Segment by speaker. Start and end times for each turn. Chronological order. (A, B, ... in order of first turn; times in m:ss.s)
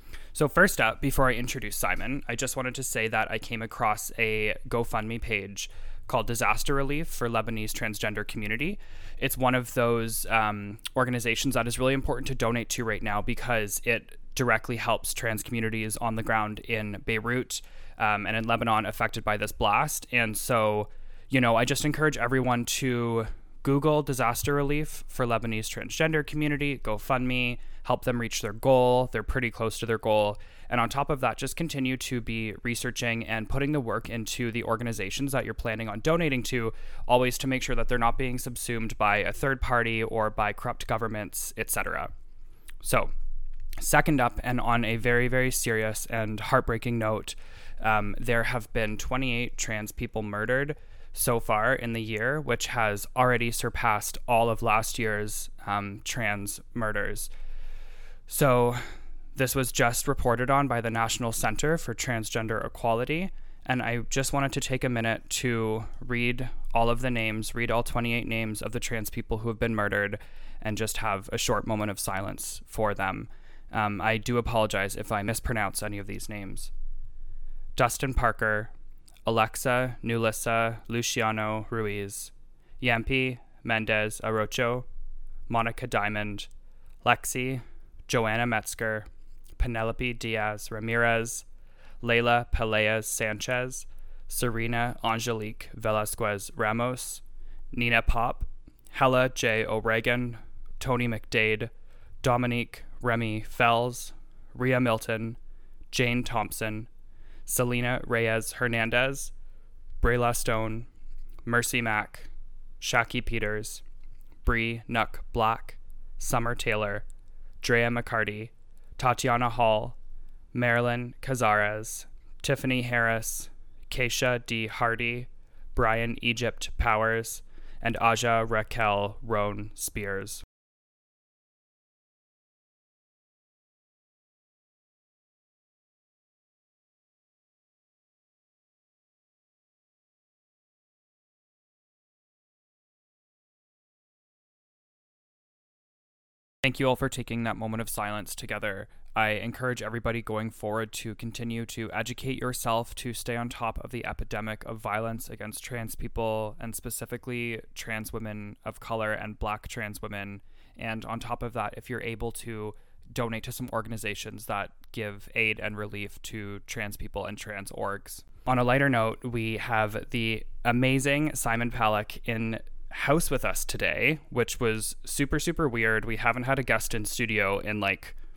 0:00.3-0:42.1 A
0:42.8-0:43.1 A
0:43.8-0:57.3 A
0:58.3-0:58.8 A
0:59.4-1:16.7 A
1:17.8-1:18.7 A
1:19.2-1:24.8 A
1:25.5-1:26.5 A
1:27.0-1:29.1 A
1:29.6-1:31.4 A
1:32.0-1:41.7 A
1:42.2-1:45.4 A
1:45.9-1:46.9 A
1:47.5-1:49.3 A
1:50.0-1:50.9 A
1:51.4-1:52.3 A
1:52.8-1:53.8 A
1:54.4-1:57.0 A
1:57.6-2:00.0 A
2:00.5-2:10.4 A
2:26.6-2:58.1 A